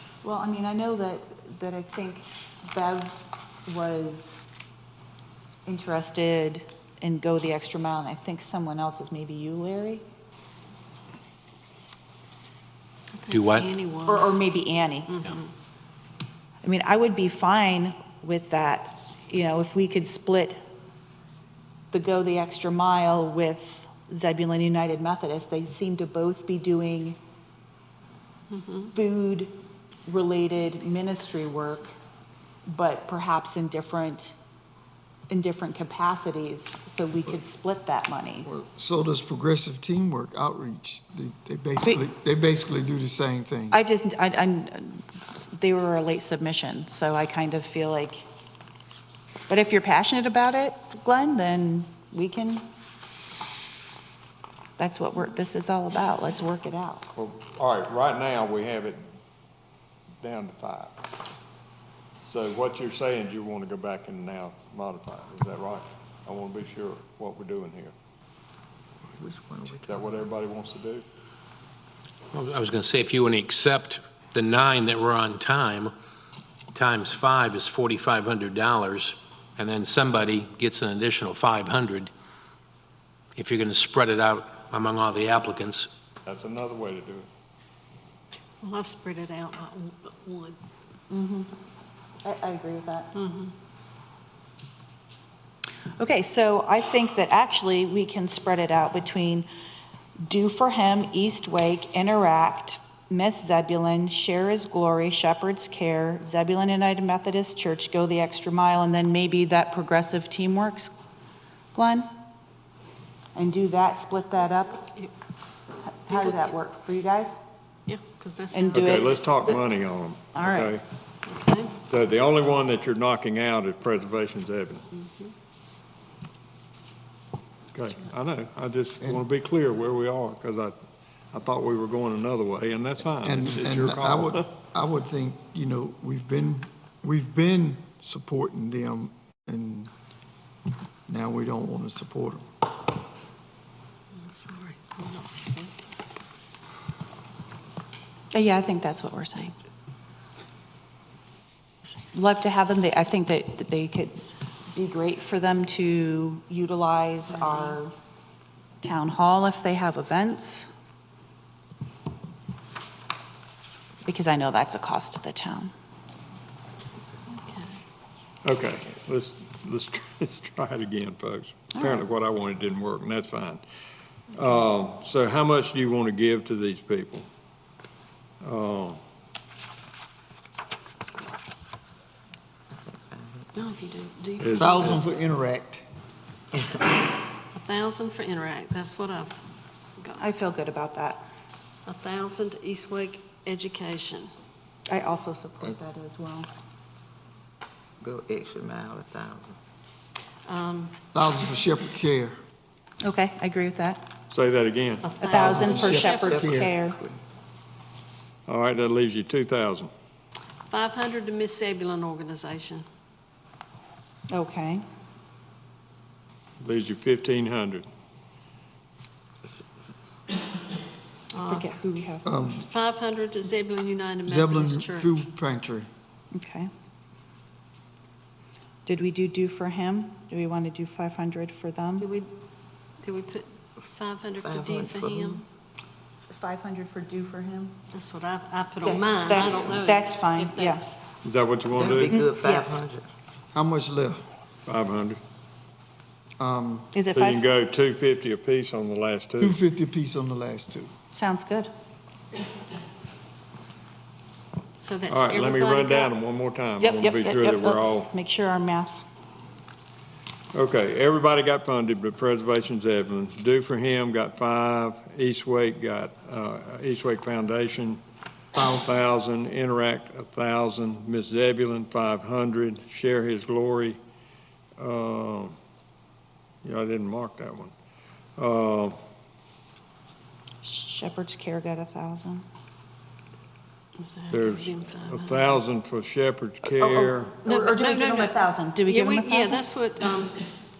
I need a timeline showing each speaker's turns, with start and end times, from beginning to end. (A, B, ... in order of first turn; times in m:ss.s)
0:00.2-0:04.4 A
0:05.6-0:10.0 A
0:13.1-0:14.4 B
0:13.3-0:13.7 C
0:14.1-0:15.2 A
0:15.1-0:15.5 B
0:16.6-0:20.6 A
0:21.9-0:27.2 A
0:28.5-0:28.9 B
0:28.9-0:29.5 A
0:30.0-0:31.9 A
0:32.7-0:34.3 A
0:35.3-0:38.5 A
0:38.4-0:43.8 D
0:43.7-0:48.2 A
0:49.5-0:52.6 A
0:54.8-0:57.1 A
0:57.2-0:59.0 E
1:00.2-1:00.9 E
1:02.2-1:07.9 E
1:09.1-1:10.1 F
1:09.8-1:11.0 E
1:12.3-1:15.9 C
1:16.7-1:22.1 C
1:23.4-1:25.9 C
1:26.2-1:27.3 E
1:28.6-1:30.6 B
1:31.1-1:31.5 A
1:32.2-1:33.1 A
1:33.1-1:33.5 B
1:36.0-1:39.5 A
1:40.2-1:50.9 A
1:51.7-1:52.1 A
1:53.3-1:54.9 A
1:55.9-1:57.4 A
1:56.1-1:56.4 B
1:57.9-1:59.0 B
1:58.5-1:59.2 A
1:58.7-2:00.8 E
2:00.3-2:00.7 A
2:01.3-2:01.8 B
2:01.9-2:04.9 E
2:04.9-2:05.3 B
2:07.7-2:10.8 E
2:11.3-2:14.4 E
2:13.2-2:19.9 D
2:21.1-2:22.4 D
2:24.2-2:25.8 B
2:28.3-2:29.5 A
2:32.1-2:37.9 A
2:38.8-2:40.7 A
2:44.0-2:45.7 A
2:47.3-2:47.7 B
2:48.4-2:53.6 E
2:51.8-2:52.0 A
2:54.3-2:57.3 E
2:58.4-2:59.0 E
3:03.5-3:05.0 B
3:04.4-3:04.8 E
3:04.5-3:05.8 D
3:07.5-3:09.3 B
3:10.2-3:11.2 A
3:11.8-3:14.3 B
3:14.9-3:16.5 A
3:18.0-3:19.6 F
3:20.4-3:20.9 B
3:21.1-3:22.4 D
3:23.0-3:24.0 A
3:24.3-3:25.1 E
3:25.0-3:26.6 B
3:25.2-3:27.0 A
3:25.3-3:26.7 D
3:26.3-3:27.2 F
3:28.5-3:29.9 E
3:30.7-3:32.8 B
3:34.3-3:34.8 A
3:36.6-3:37.9 E
3:41.3-3:41.7 B
3:41.4-3:42.3 A
3:42.2-3:42.7 D
3:42.5-3:45.1 B
3:44.2-3:45.9 D
3:46.3-3:46.7 A
3:48.8-3:52.1 A
3:52.0-3:52.3 B
3:53.0-3:55.4 B
3:54.4-3:55.4 F
3:56.3-3:57.8 A
3:57.9-4:00.8 B
3:58.8-4:01.0 A
4:01.2-4:02.2 E
4:01.7-4:03.1 F
4:02.1-4:02.8 A
4:03.5-4:04.2 D
4:04.6-4:05.2 E
4:06.4-4:06.9 D
4:06.9-4:07.4 A
4:07.1-4:09.6 E
4:09.4-4:10.9 D
4:11.1-4:11.7 A
4:14.8-4:16.1 B
4:15.1-4:18.1 E
4:16.8-4:19.0 A
4:20.5-4:28.0 E
4:28.5-4:28.9 D
4:28.8-4:34.0 E
4:34.8-4:35.6 E
4:36.6-4:37.7 E
4:38.4-4:39.0 E
4:40.6-4:42.4 A
4:44.0-4:45.6 B
4:44.3-4:47.4 E
4:46.7-4:49.6 A
4:47.4-4:50.4 B